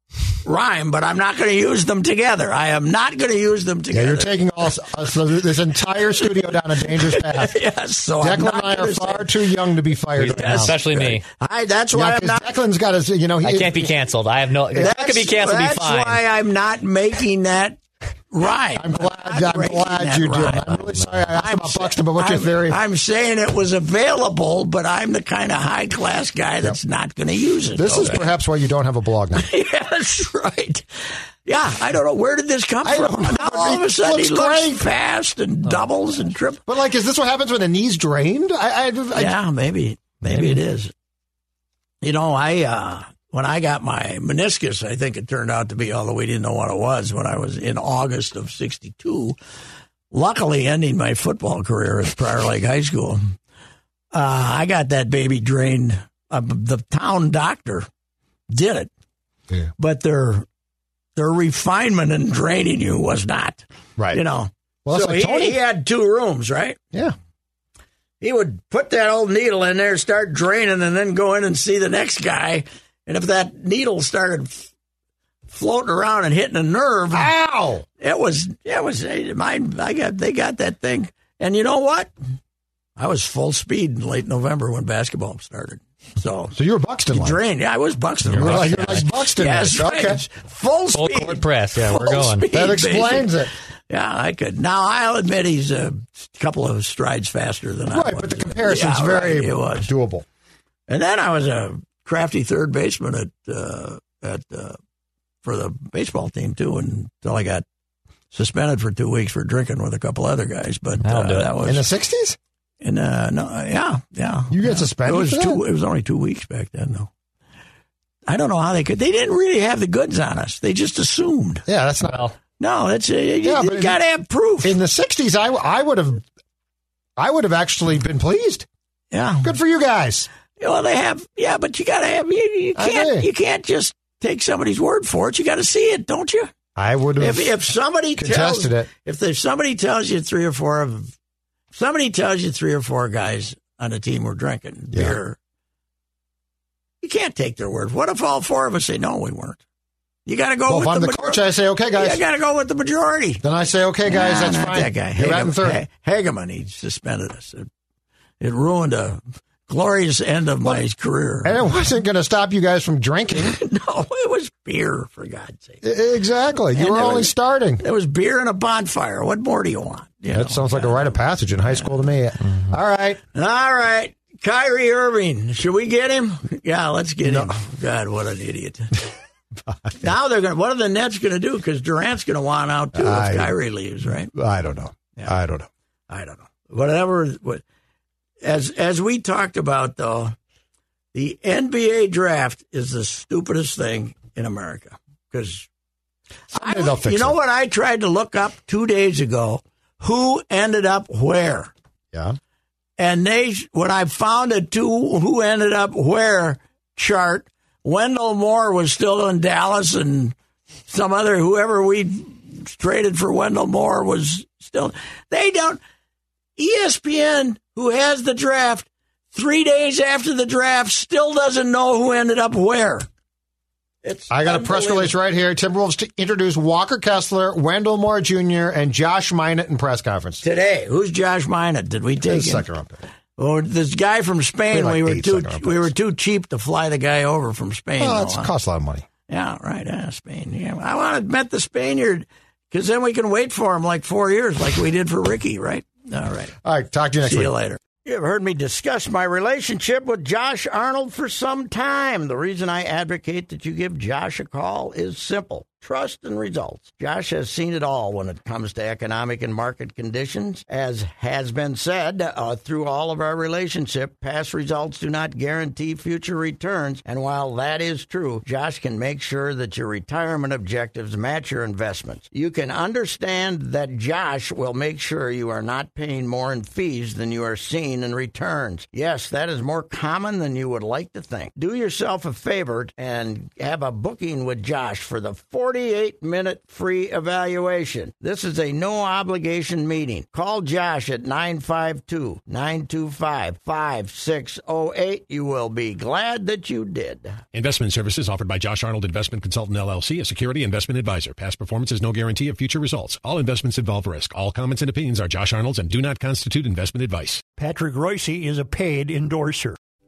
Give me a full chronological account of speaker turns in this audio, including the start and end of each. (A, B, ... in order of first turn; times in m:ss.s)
0:00.4-0:04.3 A
0:03.9-0:07.6 B
0:06.5-0:09.6 A
0:08.2-0:10.8 B
0:10.2-0:11.2 C
0:10.2-0:12.5 A
0:11.9-0:13.9 B
0:13.4-0:16.2 C
0:14.8-0:17.8 A
0:18.3-0:28.3 A
0:18.8-0:22.8 B
0:27.8-0:29.4 B
0:29.3-0:30.9 A
0:31.4-0:36.6 A
0:32.8-0:34.9 B
0:36.7-0:39.3 B
0:39.1-0:40.9 A
0:42.0-0:49.4 A
0:50.1-0:53.2 A
0:54.1-0:57.9 A
0:58.5-0:58.9 A
0:59.8-1:00.4 A
1:01.2-1:06.8 A
1:04.8-1:05.6 B
1:08.2-1:14.7 A
1:15.5-1:17.3 A
1:17.1-1:17.8 B
1:18.0-1:22.1 A
1:23.0-1:26.6 A
1:26.6-1:27.4 B
1:27.1-1:39.9 A
1:28.2-1:30.2 B
1:28.3-1:28.9 C
1:30.9-1:32.5 C
1:31.9-1:33.5 B
1:37.9-1:40.2 B
1:40.9-1:44.8 A
1:45.4-1:47.6 A
1:48.3-1:51.9 A
1:51.0-1:51.6 C
1:51.6-1:52.4 B
1:52.8-1:57.1 A
1:54.5-1:55.6 B
1:58.3-2:01.6 A
2:01.7-2:02.3 B
2:02.6-2:04.8 A
2:03.4-2:04.0 B
2:04.6-2:06.2 B
2:07.2-2:08.7 B
2:09.1-2:09.5 A
2:09.4-2:10.3 B
2:10.6-2:16.5 A
2:12.8-2:13.3 B
2:16.8-2:17.5 B
2:17.2-2:21.1 A
2:18.2-2:18.9 B
2:21.7-2:25.4 A
2:27.0-2:29.6 A
2:30.2-2:33.4 A
2:30.7-2:32.2 B
2:33.4-2:35.8 B
2:34.0-2:37.7 A
2:38.4-2:41.6 A
2:41.4-2:43.6 B
2:43.3-2:45.8 A
2:45.8-2:47.8 B
2:46.7-2:51.1 A
2:50.3-2:53.2 B
2:53.3-2:59.1 A
2:57.2-2:57.5 B
2:59.7-3:00.0 B
3:00.0-3:04.3 A
3:02.9-3:03.6 B
3:04.3-3:05.7 B
3:06.1-3:07.6 A
3:08.4-3:10.3 A
3:11.1-3:15.7 A
3:16.5-3:21.7 A
3:16.5-3:17.4 B
3:23.0-3:30.3 A
3:30.9-3:35.8 A
3:36.6-3:43.1 A
3:44.0-3:45.1 A
3:44.3-3:50.4 B
3:50.4-3:52.6 A
3:52.2-3:53.0 B
3:53.4-3:58.5 A
3:54.7-3:55.9 B
3:58.0-3:59.0 B
3:59.3-4:06.6 A
4:06.6-4:07.5 B
4:07.2-4:57.4 A
4:57.5-5:07.4 D
5:07.6-5:09.8 E